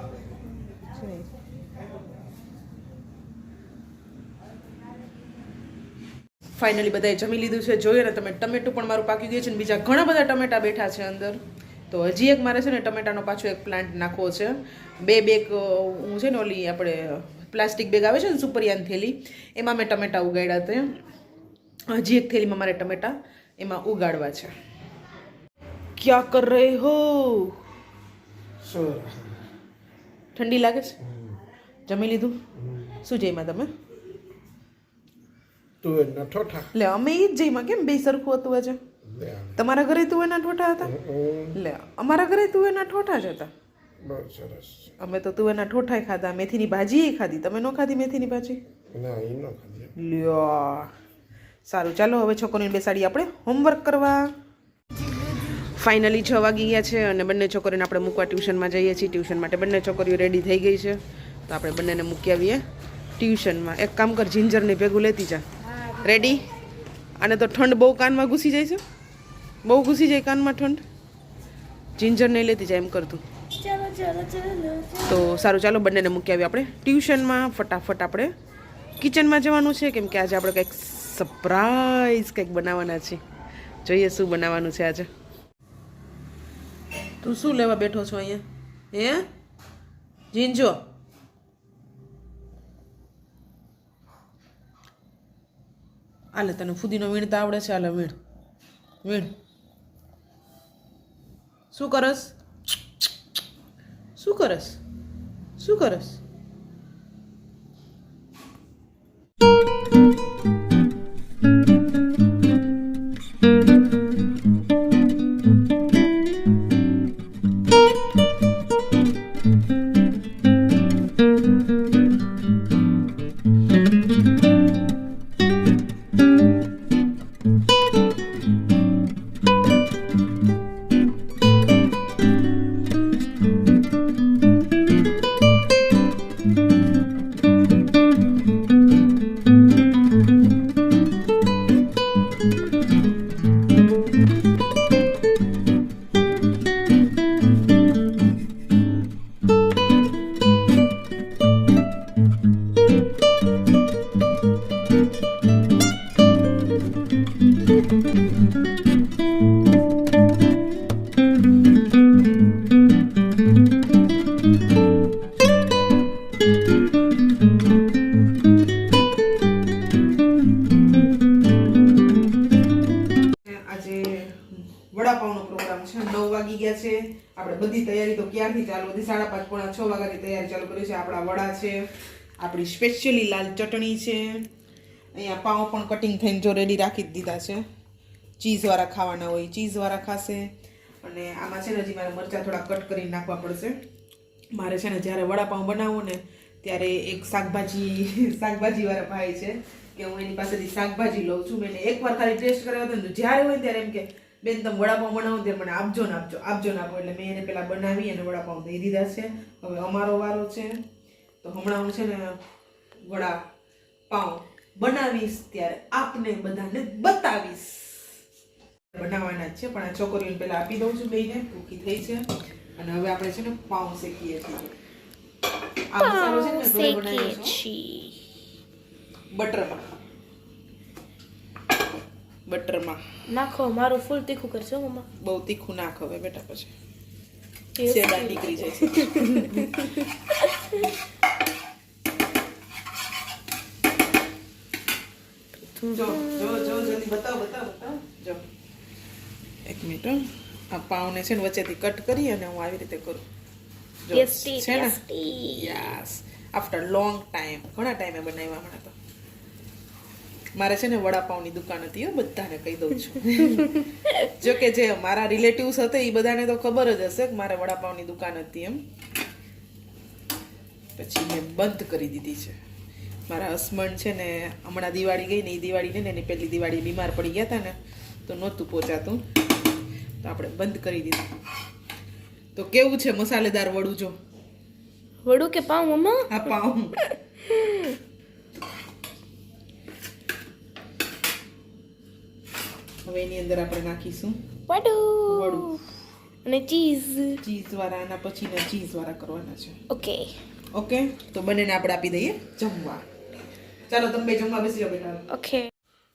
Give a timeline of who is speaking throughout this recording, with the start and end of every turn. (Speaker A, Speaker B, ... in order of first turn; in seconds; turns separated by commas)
Speaker A: 0.9-1.2, Speaker A: 6.6-20.9, Speaker A: 21.9-24.5, Speaker A: 26.0-27.6, Speaker B: 28.6-29.4, Speaker A: 30.3-30.9, Speaker A: 31.9-32.3, Speaker A: 32.9-33.7, Speaker B: 35.8-36.7, Speaker A: 36.7-38.8, Speaker B: 39.1-39.5, Speaker A: 39.5-40.9, Speaker B: 41.1-41.4, Speaker A: 41.5-43.5, Speaker B: 44.0-44.9, Speaker A: 45.0-48.6, Speaker B: 48.9-49.9, Speaker A: 50.0-50.9, Speaker A: 51.6-54.3, Speaker A: 55.4-62.6, Speaker A: 63.2-66.5, Speaker A: 67.2-68.8, Speaker A: 69.6-70.8, Speaker A: 72.0-73.2, Speaker C: 73.5-75.2, Speaker A: 75.0-78.3, Speaker A: 79.0-83.2, Speaker A: 83.8-85.1, Speaker A: 87.2-89.2, Speaker A: 90.3-90.8, Speaker A: 96.3-98.1, Speaker A: 99.0-99.3, Speaker A: 101.7-102.3, Speaker A: 104.2-104.8, Speaker A: 105.6-106.2, Speaker A: 173.4-181.9, Speaker A: 182.4-184.5, Speaker A: 185.1-187.6, Speaker A: 188.4-190.5, Speaker A: 191.0-193.8, Speaker A: 194.5-210.8, Speaker A: 211.4-212.4, Speaker A: 213.0-213.4, Speaker A: 214.1-218.2, Speaker A: 218.9-224.7, Speaker A: 225.9-227.6, Speaker C: 226.0-228.2, Speaker A: 229.3-229.8, Speaker A: 232.4-233.0, Speaker C: 233.3-235.1, Speaker A: 235.2-236.7, Speaker C: 237.8-240.8, Speaker A: 237.8-239.9, Speaker C: 245.6-246.2, Speaker A: 245.8-248.4, Speaker A: 249.6-253.2, Speaker A: 254.0-258.9, Speaker C: 254.1-255.7, Speaker A: 260.5-268.8, Speaker A: 270.9-272.6, Speaker A: 273.3-277.8, Speaker A: 278.3-279.2, Speaker A: 280.2-281.2, Speaker A: 282.5-284.1, Speaker C: 285.2-286.5, Speaker A: 286.3-286.9, Speaker C: 287.0-287.9, Speaker A: 293.0-294.4, Speaker C: 294.7-295.8, Speaker A: 295.2-295.8, Speaker C: 296.4-297.4, Speaker A: 297.4-299.8, Speaker C: 299.9-300.3, Speaker A: 300.7-303.0, Speaker A: 303.9-305.2, Speaker C: 305.3-305.7